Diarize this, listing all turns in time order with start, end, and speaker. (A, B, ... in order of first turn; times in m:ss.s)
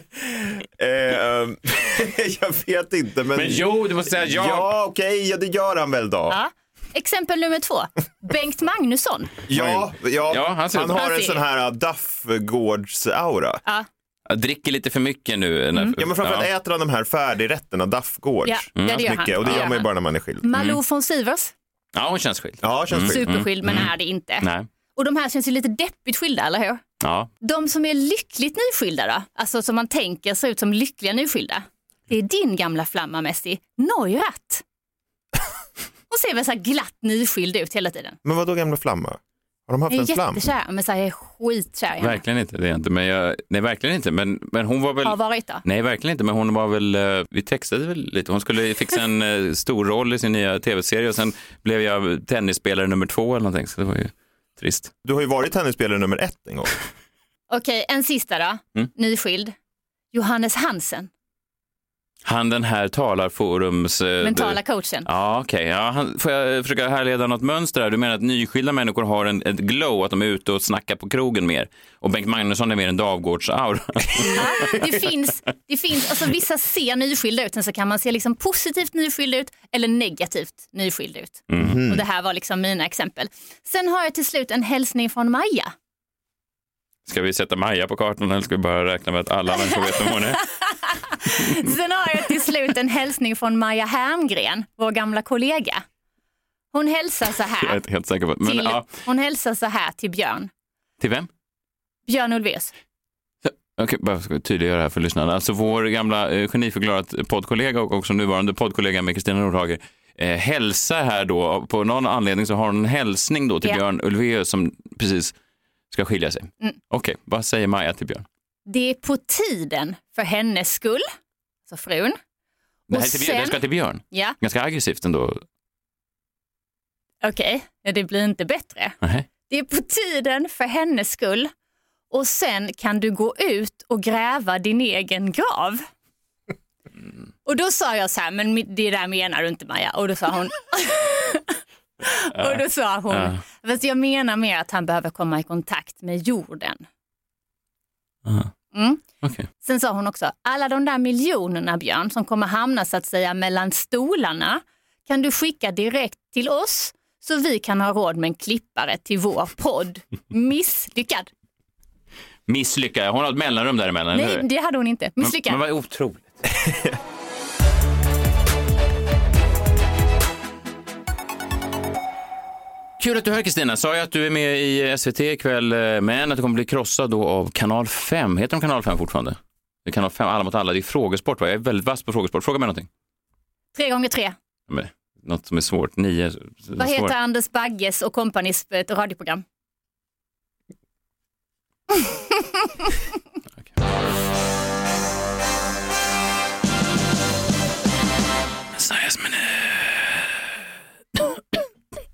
0:00.2-0:06.4 A
0:03.3-0:04.7 B
0:06.3-0:09.3 C
0:09.5-0:13.6 A
0:09.5-0:11.0 B
0:10.9-0:11.4 C
0:14.3-0:16.5 B
0:16.0-0:20.4 A
0:18.4-0:19.9 C
0:18.8-0:19.7 B
0:20.4-0:21.5 C
0:20.5-0:20.8 B
0:21.9-0:23.9 B
0:22.6-0:23.2 A
0:23.0-0:26.8 C
0:24.4-0:24.7 B
0:27.0-0:27.3 B
0:27.4-0:34.6 C
0:36.1-0:38.2 C
0:38.2-0:40.4 A
0:39.9-0:42.2 C
0:42.0-0:54.9 B
0:45.0-0:45.6 C
0:55.0-0:56.7 A
0:57.5-0:59.5 C
1:00.1-1:01.1 C
1:02.2-1:14.8 B
1:04.2-1:05.1 C
1:14.2-1:25.7 C
1:21.5-1:21.8 B
1:21.6-1:22.0 A
1:27.0-1:30.4 B
1:29.7-1:35.8 C
1:36.7-1:37.8 C
1:37.6-1:38.9 B
1:38.4-1:40.5 C
1:41.0-1:41.3 B
1:42.1-1:42.7 C
1:43.4-1:55.3 B
1:55.9-1:58.2 B
1:58.6-2:01.0 C
2:01.7-2:02.2 C
2:02.9-2:03.6 C
2:02.9-2:05.4 B
2:04.1-2:04.4 C
2:07.2-2:09.0 C
2:09.5-2:11.5 C
2:12.1-2:15.8 C
2:17.4-2:26.8 C
2:22.4-2:23.4 B
2:28.2-2:28.5 B
2:28.7-2:29.0 C
2:29.2-2:29.5 B
2:29.6-2:41.3 C
2:42.5-2:44.4 B
2:44.1-2:45.6 C
2:45.2-2:46.3 B
2:46.6-2:46.9 A
2:53.0-3:02.9 B
3:03.7-3:04.4 C
3:04.7-3:07.1 B
3:06.8-3:09.4 C
3:18.7-3:20.2 B